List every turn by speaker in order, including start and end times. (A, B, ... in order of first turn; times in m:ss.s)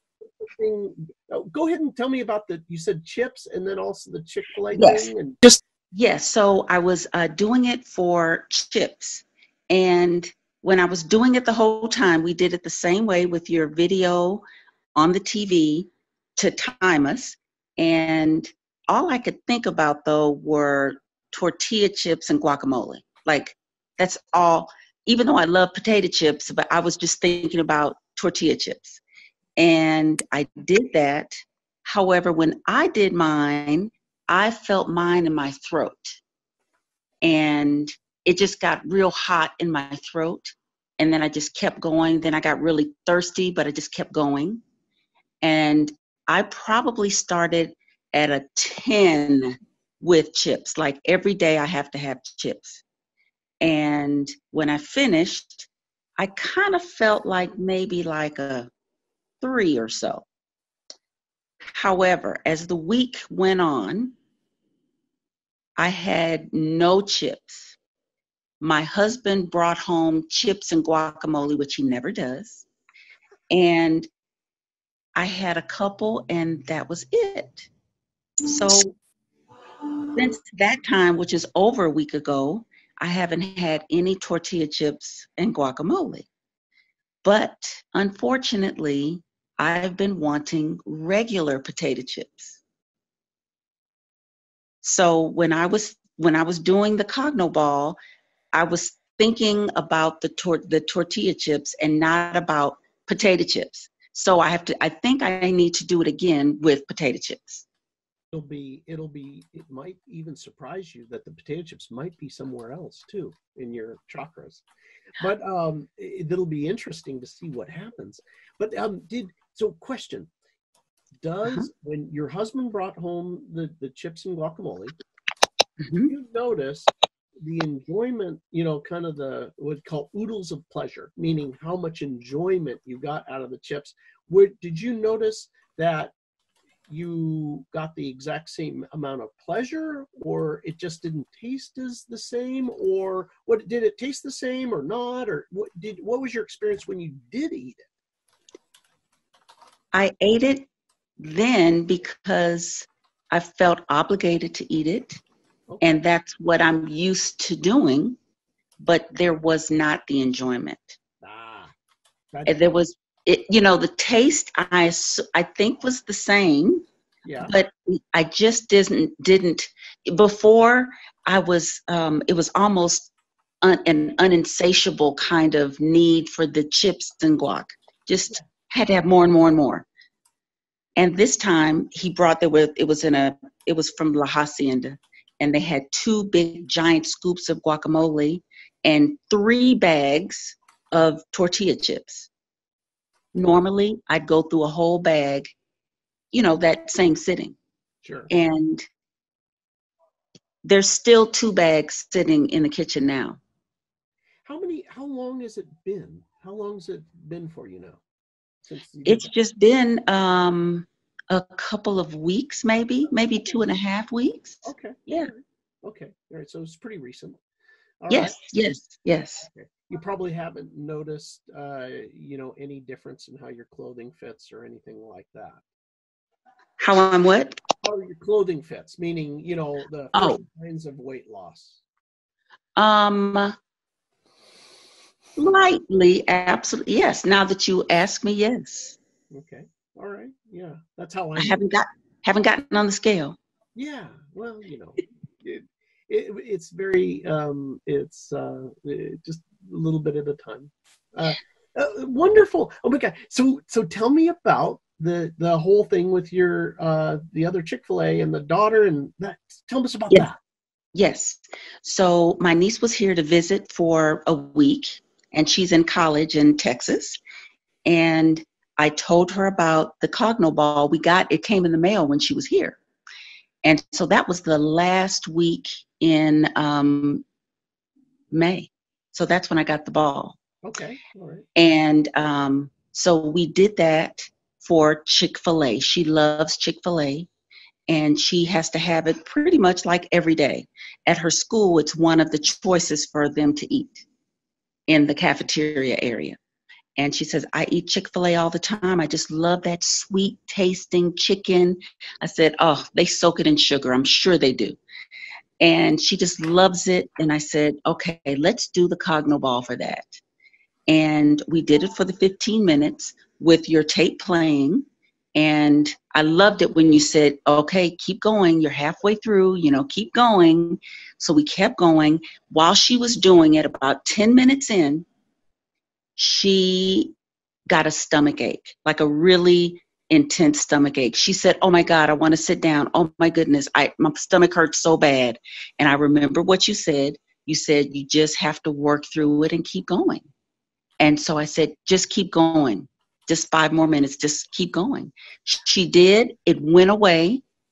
0:00.4-0:05.6 A
0:04.7-0:05.1 B
0:05.9-0:14.4 B
0:15.0-0:29.0 B
0:29.6-0:31.3 B
0:31.8-0:36.2 B
0:37.2-0:44.6 B
0:45.4-0:52.8 B
0:53.6-0:58.7 B
0:59.4-1:00.3 B
1:01.8-1:04.1 B
1:05.8-1:07.8 B
1:08.6-1:12.7 B
1:13.5-1:14.1 B
1:15.2-1:17.7 B
1:18.4-1:18.9 B
1:20.1-1:26.3 B
1:27.2-1:32.6 B
1:34.8-1:38.0 B
1:38.5-1:47.7 B
1:48.3-1:54.6 A
1:55.2-2:00.3 A
2:01.2-2:04.9 A
2:05.8-2:06.1 B
2:06.1-2:06.9 A
2:07.4-2:16.1 A
2:16.9-2:27.9 A
2:29.9-2:30.7 B
2:31.2-2:35.2 B
2:35.8-2:38.2 B
2:38.8-2:41.0 B
2:41.2-2:41.7 A
2:42.3-2:42.7 A
2:42.5-2:46.8 B
2:47.2-2:47.6 A
2:47.4-2:53.1 B
2:53.6-2:59.9 B
3:01.0-3:12.3 B
3:13.3-3:15.5 B
3:16.3-3:17.6 B
3:18.0-3:18.3 A
3:18.3-3:18.8 B
3:20.6-3:23.4 B
3:24.4-3:28.0 A
3:28.7-3:29.3 A
3:29.0-3:35.3 B
3:33.4-3:33.6 A
3:34.6-3:37.4 A
3:38.0-3:38.4 A
3:38.1-3:39.5 B
3:39.5-3:45.6 A
3:46.8-3:47.6 B
3:47.8-3:51.8 A
3:50.1-3:50.4 B
3:52.8-3:53.5 B
3:55.4-3:59.0 B
3:59.3-4:01.6 A
4:01.4-4:03.4 B
4:03.8-4:20.4 A
4:20.9-4:27.2 B
4:27.9-4:32.8 B
4:33.6-4:37.2 B
4:38.3-4:40.4 B
4:40.6-4:41.4 A
4:41.6-4:47.3 B
4:47.9-4:54.1 B
4:54.9-4:56.4 B
4:57.0-5:04.8 B
5:05.6-5:10.2 B
5:10.9-5:14.8 B
5:15.4-5:25.1 B
5:26.2-5:27.2 B
5:27.7-5:40.3 B
5:41.0-5:47.4 B